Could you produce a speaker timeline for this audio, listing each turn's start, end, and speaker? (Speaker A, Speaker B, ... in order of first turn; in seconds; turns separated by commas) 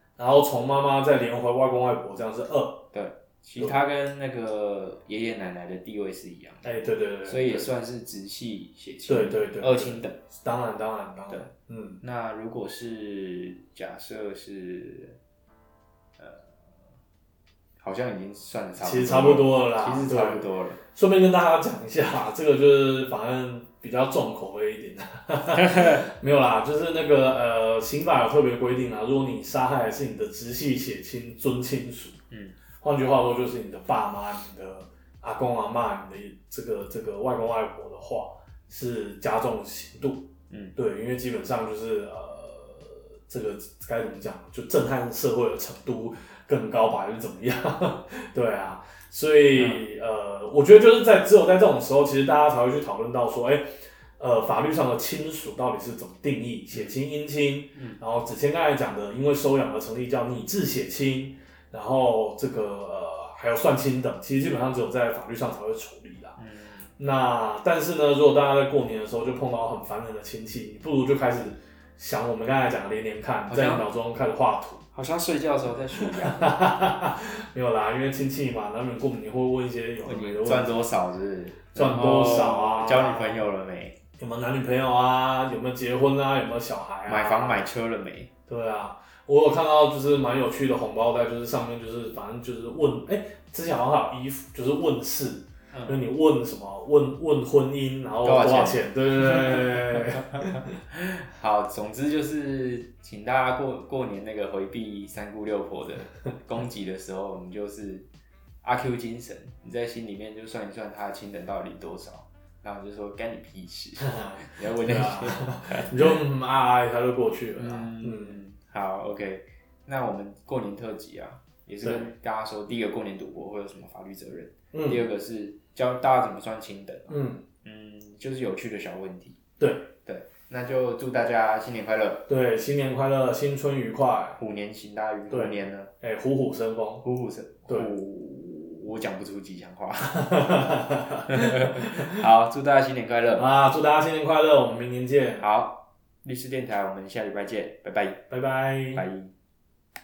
Speaker A: 0.2-2.9, Speaker B: 2.9-10.2, Speaker A: 6.6-7.7, Speaker A: 9.1-12.0, Speaker B: 12.0-15.2, Speaker B: 16.2-16.8, Speaker B: 17.8-20.8, Speaker A: 18.8-32.2, Speaker B: 25.6-26.1, Speaker B: 32.3-32.6, Speaker A: 32.8-53.6, Speaker B: 40.5-40.8, Speaker B: 49.5-49.8, Speaker A: 54.2-66.4, Speaker B: 66.4-66.9, Speaker A: 67.0-74.8, Speaker B: 73.5-73.9, Speaker B: 74.9-76.5, Speaker A: 76.1-80.8, Speaker B: 80.0-84.0, Speaker A: 81.7-83.4, Speaker A: 84.2-87.7, Speaker B: 87.1-88.3, Speaker A: 88.5-100.8, Speaker B: 95.7-96.0, Speaker B: 98.2-108.1, Speaker B: 108.6-116.1, Speaker A: 114.0-118.4, Speaker B: 117.6-129.4, Speaker A: 121.8-122.1, Speaker A: 124.7-125.0, Speaker A: 127.1-127.4, Speaker A: 129.6-129.9, Speaker B: 130.0-132.3, Speaker A: 132.3-134.4, Speaker B: 134.4-135.9, Speaker A: 135.3-137.1, Speaker B: 137.0-140.4, Speaker A: 137.7-137.9, Speaker A: 140.2-142.2, Speaker B: 141.3-143.5, Speaker A: 143.4-145.5, Speaker B: 145.4-148.3, Speaker A: 148.3-149.1, Speaker B: 148.9-149.3